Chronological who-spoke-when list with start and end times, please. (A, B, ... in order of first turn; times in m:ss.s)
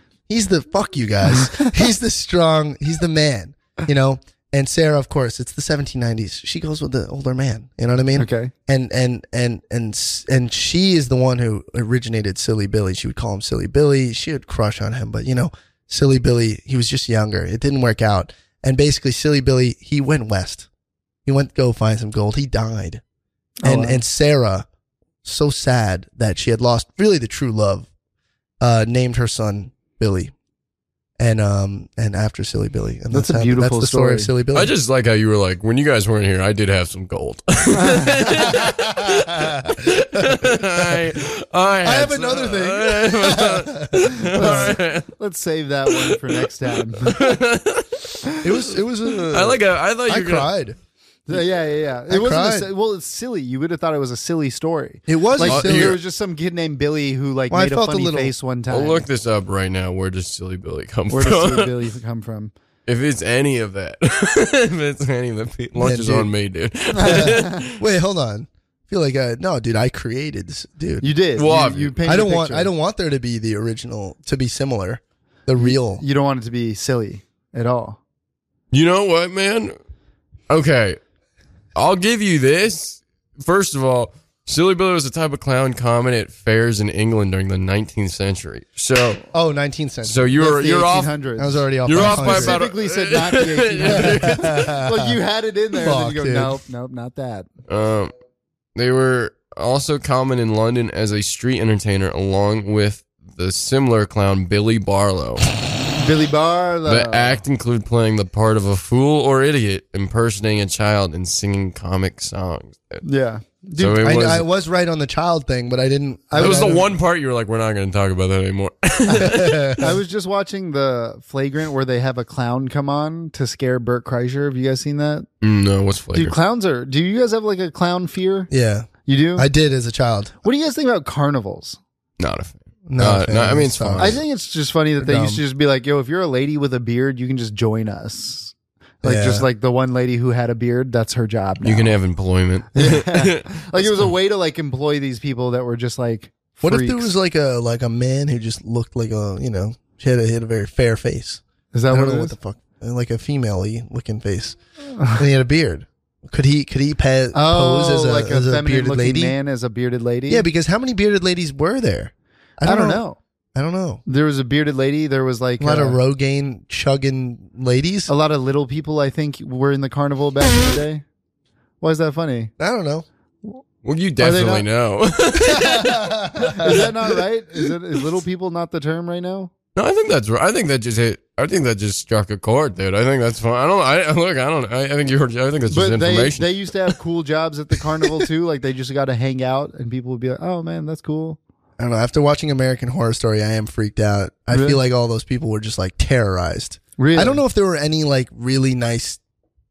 0:00.3-0:20.7 A
0:01.2-0:01.7 B
0:08.2-0:08.5 B
0:21.2-0:23.0 A
0:23.6-0:24.0 B
0:23.6-0:24.6 A
0:25.2-0:27.9 A
0:28.6-0:30.3 A
0:31.2-0:34.7 A
0:33.1-0:34.3 B
0:34.5-0:45.1 C
0:37.7-0:38.5 B
0:38.4-0:40.9 A
0:41.8-0:44.7 A
0:44.3-0:47.4 B
0:45.9-0:48.2 C
0:48.4-0:50.8 A
0:49.3-0:50.5 C
0:51.3-0:59.0 B
0:52.1-0:52.7 A
0:55.1-0:56.0 A
0:55.4-0:56.0 C
0:57.5-0:58.3 A
0:58.7-1:01.8 C
1:01.1-1:02.5 B
1:02.8-1:07.8 C
1:05.8-1:06.3 A
1:06.9-1:07.6 B
1:07.0-1:11.1 A
1:11.0-1:12.7 B
1:11.3-1:12.0 C
1:12.0-1:16.0 A
1:15.6-1:18.0 B
1:18.7-1:19.7 C
1:20.5-1:21.0 C
1:21.7-1:29.2 C
1:29.3-1:30.4 A
1:30.0-1:31.1 C
1:30.4-1:37.5 B
1:31.4-1:32.6 A
1:31.8-1:34.7 C
1:33.8-1:35.1 A
1:35.8-1:36.6 A
1:37.7-1:38.1 C
1:38.7-1:45.4 C
1:46.0-1:47.4 B
1:46.8-1:53.0 C
1:53.0-1:54.0 B
1:53.8-1:54.4 C
1:54.0-1:56.8 A
1:56.3-1:56.8 B
1:56.4-1:59.7 C
1:59.1-2:05.3 B
1:59.2-1:59.9 A
2:05.4-2:06.4 C
2:06.1-2:08.5 B
2:08.5-2:10.4 A
2:09.0-2:09.5 B
2:10.4-2:11.8 B
2:12.2-2:14.2 C
2:12.9-2:14.2 A
2:14.0-2:22.0 B
2:15.0-2:15.4 A
2:19.0-2:19.5 A
2:21.6-2:24.1 C
2:22.7-2:27.1 B
2:26.6-2:34.6 A
2:31.7-2:32.3 B
2:35.0-2:35.2 B
2:35.1-2:39.3 A
2:37.3-2:40.4 B
2:40.3-2:43.0 A
2:42.6-2:43.2 B
2:43.5-2:44.0 A
2:44.0-2:46.0 B
2:45.6-2:48.1 A
2:48.1-2:51.0 B
2:51.8-2:52.5 B
2:52.6-2:53.0 A
2:53.8-2:56.1 C
2:54.2-2:54.6 B
2:55.4-2:56.9 A
2:56.4-2:59.5 B
2:56.6-2:56.9 C
2:59.7-3:06.9 C
3:05.7-3:11.4 B
3:07.8-3:08.2 C
3:11.8-3:19.2 A
3:14.5-3:14.8 B
3:17.0-3:17.4 B